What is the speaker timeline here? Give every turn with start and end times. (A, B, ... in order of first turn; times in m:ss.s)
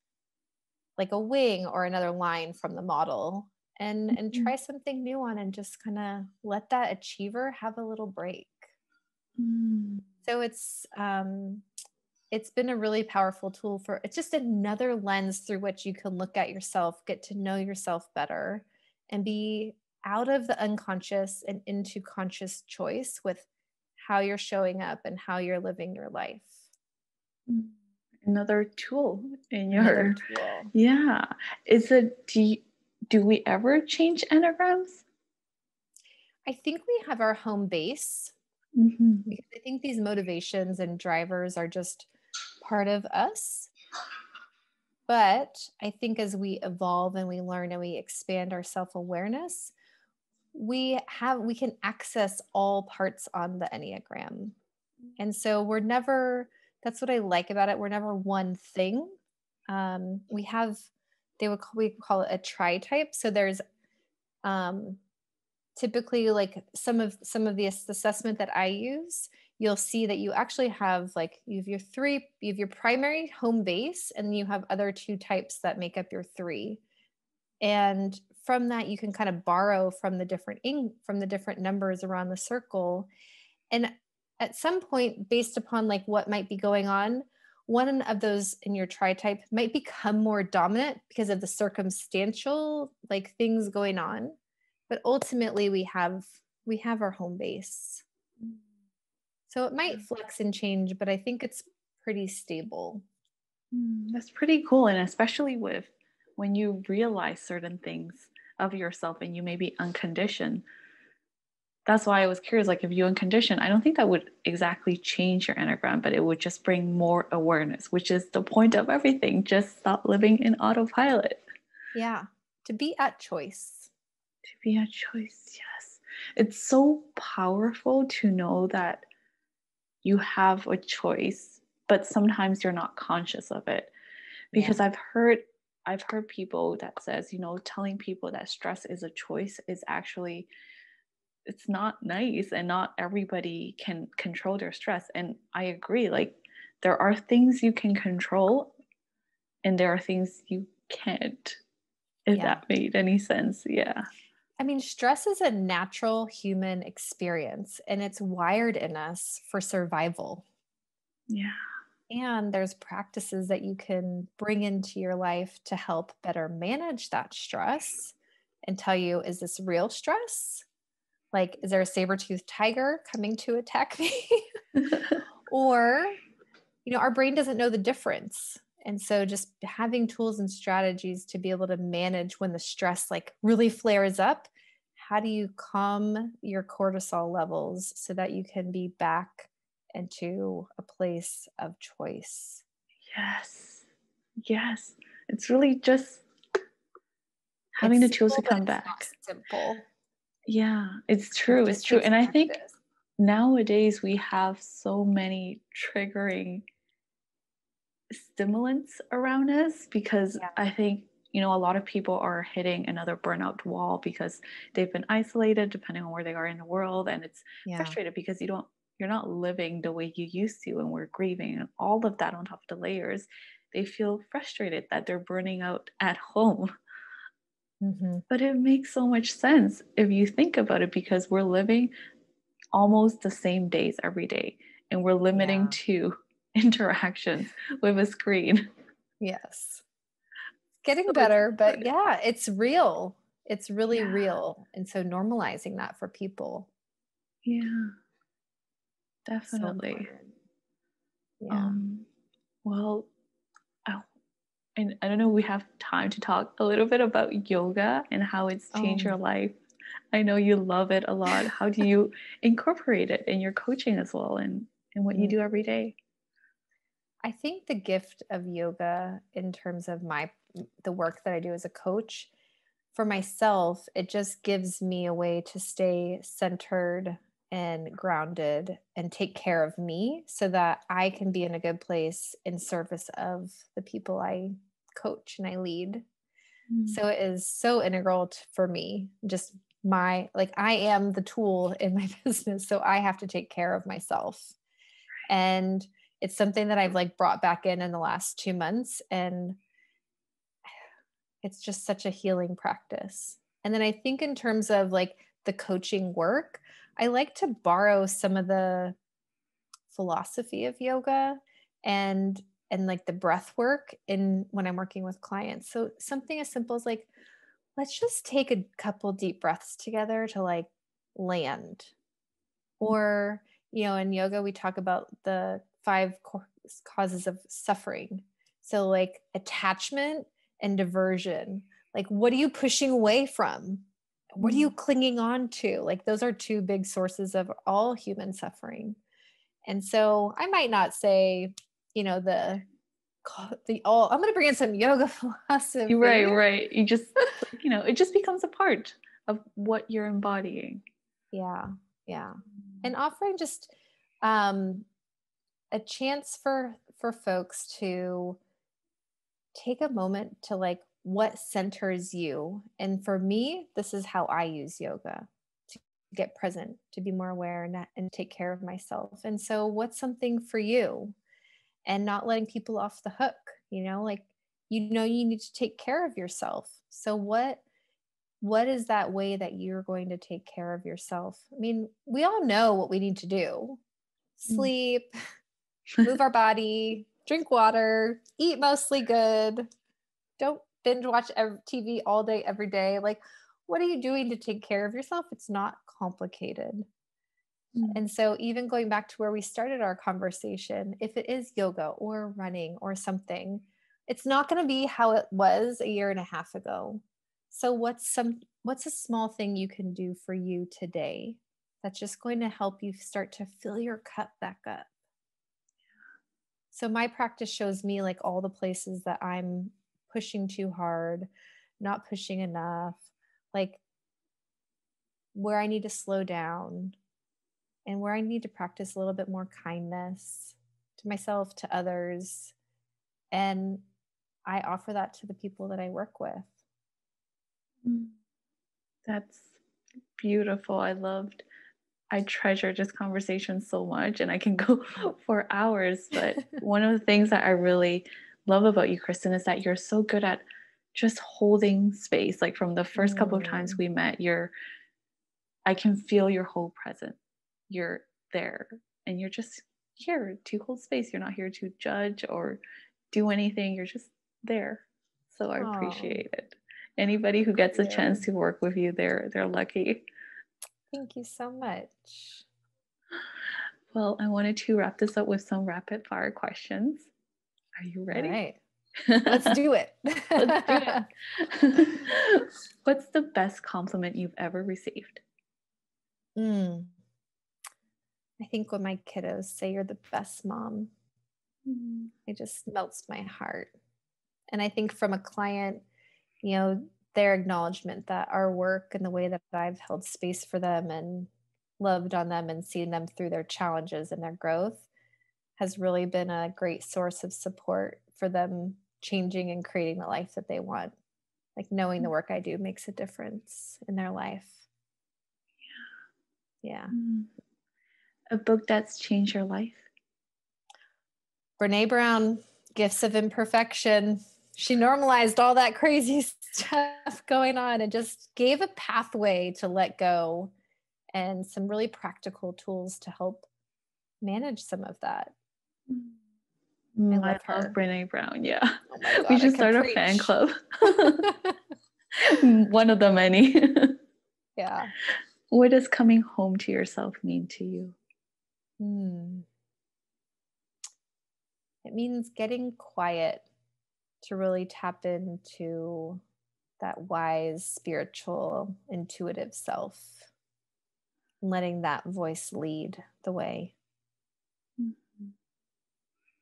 0:01.0-0:08.7 A
0:04.1-0:04.5 B
0:09.4-0:10.1 B
0:10.2-0:11.7 A
0:12.3-0:23.5 A
0:24.0-0:26.6 A
0:27.5-0:30.2 B
0:29.7-0:30.7 A
0:30.7-0:35.0 B
0:36.5-0:38.3 A
0:38.8-0:39.3 B
0:39.3-0:42.1 A
0:42.6-0:43.7 A
0:45.1-0:49.7 A
0:50.5-0:54.6 A
0:55.2-0:59.2 A
0:59.7-1:00.9 A
1:01.4-1:03.6 A
1:04.4-1:05.0 A
1:05.8-1:16.8 A
1:17.6-1:23.1 A
1:23.7-1:34.4 A
1:34.9-1:38.0 A
1:39.5-1:43.0 A
1:43.7-1:50.6 B
1:51.9-2:01.4 B
2:02.0-2:03.9 A
2:04.5-2:09.0 B
2:10.0-2:13.9 B
2:14.5-2:20.5 B
2:14.5-2:14.8 A
2:21.5-2:28.8 B
2:29.6-2:31.6 B
2:32.3-2:34.1 B
2:32.4-2:32.6 A
2:34.6-2:40.4 A
2:41.3-2:41.6 B
2:42.1-2:48.2 A
2:48.7-2:50.6 A
2:51.3-2:54.4 A
2:55.5-2:56.2 A
2:56.8-3:12.6 A
3:13.0-3:13.9 B
3:14.4-3:16.2 B
3:17.8-3:19.1 B
3:17.8-3:19.8 A
3:20.5-3:22.6 B
3:21.5-3:22.8 A
3:23.2-3:26.6 B
3:28.1-3:46.7 B
3:37.6-3:38.0 A
3:47.8-3:48.2 A
3:48.3-3:51.9 B
3:52.7-3:58.7 B
3:55.4-3:55.8 A
3:59.2-3:59.8 A
4:00.8-4:06.7 A
4:00.9-4:01.9 B
4:03.9-4:04.3 B
4:07.4-4:07.9 B
4:09.3-4:10.1 B
4:09.5-4:10.3 A
4:11.4-4:11.8 A
4:11.5-4:12.1 B
4:12.6-4:13.1 B
4:14.8-4:19.6 B
4:18.7-4:19.2 A
4:20.1-4:26.0 B
4:25.1-4:25.4 A
4:27.2-4:32.3 A
4:32.9-4:46.0 A
4:46.7-4:47.0 B
4:46.9-4:54.5 A
4:55.3-4:59.6 A
5:01.4-5:09.0 A
5:09.9-5:17.1 A
5:17.8-5:21.9 A
5:22.8-5:33.9 A
5:34.4-5:39.0 A
5:34.4-5:34.7 B
5:39.7-5:42.6 A
5:43.2-5:46.4 A
5:45.9-5:50.8 B
5:51.3-5:53.7 A
5:54.2-5:54.9 A
5:55.7-5:58.4 A
5:59.5-6:11.2 A
6:11.9-6:17.6 A
6:18.4-6:23.8 A
6:24.4-6:25.1 A
6:26.0-6:29.7 A
6:30.4-6:36.9 A
6:37.7-6:38.0 B
6:37.9-6:54.9 A
6:56.7-7:01.3 A
7:01.8-7:03.8 A
7:05.4-7:07.0 A
7:07.9-7:12.5 A
7:13.3-7:13.8 A
7:14.5-7:16.5 A
7:17.8-7:18.2 B
7:19.1-7:19.6 B
7:20.2-7:21.4 B
7:22.1-7:34.5 B
7:33.0-7:33.8 A
7:35.7-7:37.2 B
7:37.7-7:42.6 B
7:43.1-7:50.0 B
7:45.6-7:46.2 A
7:47.7-7:48.2 A
7:50.9-7:52.5 A
7:53.9-7:57.1 B
7:57.8-7:58.4 B
7:58.1-7:58.6 A
7:59.0-7:59.6 B
7:59.3-8:01.1 A
8:00.4-8:05.2 B
8:06.4-8:06.9 A
8:08.4-8:10.9 A
8:11.7-8:12.1 B
8:12.3-8:13.7 A
8:14.5-8:15.8 A
8:16.4-8:21.3 A
8:21.8-8:24.9 A
8:25.6-8:31.0 A
8:31.6-8:34.6 A
8:36.6-8:37.0 A
8:36.9-8:37.3 B
8:38.3-8:39.9 B
8:41.6-8:50.5 A
8:51.1-8:53.5 A
8:54.2-8:55.3 A
8:55.9-8:56.2 B
8:57.0-9:01.3 B
8:57.1-8:57.7 A
8:58.9-9:00.3 A
9:00.9-9:01.6 A
9:02.2-9:04.0 B
9:04.6-9:04.9 A
9:05.0-9:08.0 B
9:08.8-9:09.5 A
9:11.8-9:13.5 A
9:14.2-9:16.2 A
9:16.8-9:20.3 A
9:21.4-9:23.7 A
9:24.8-9:25.4 B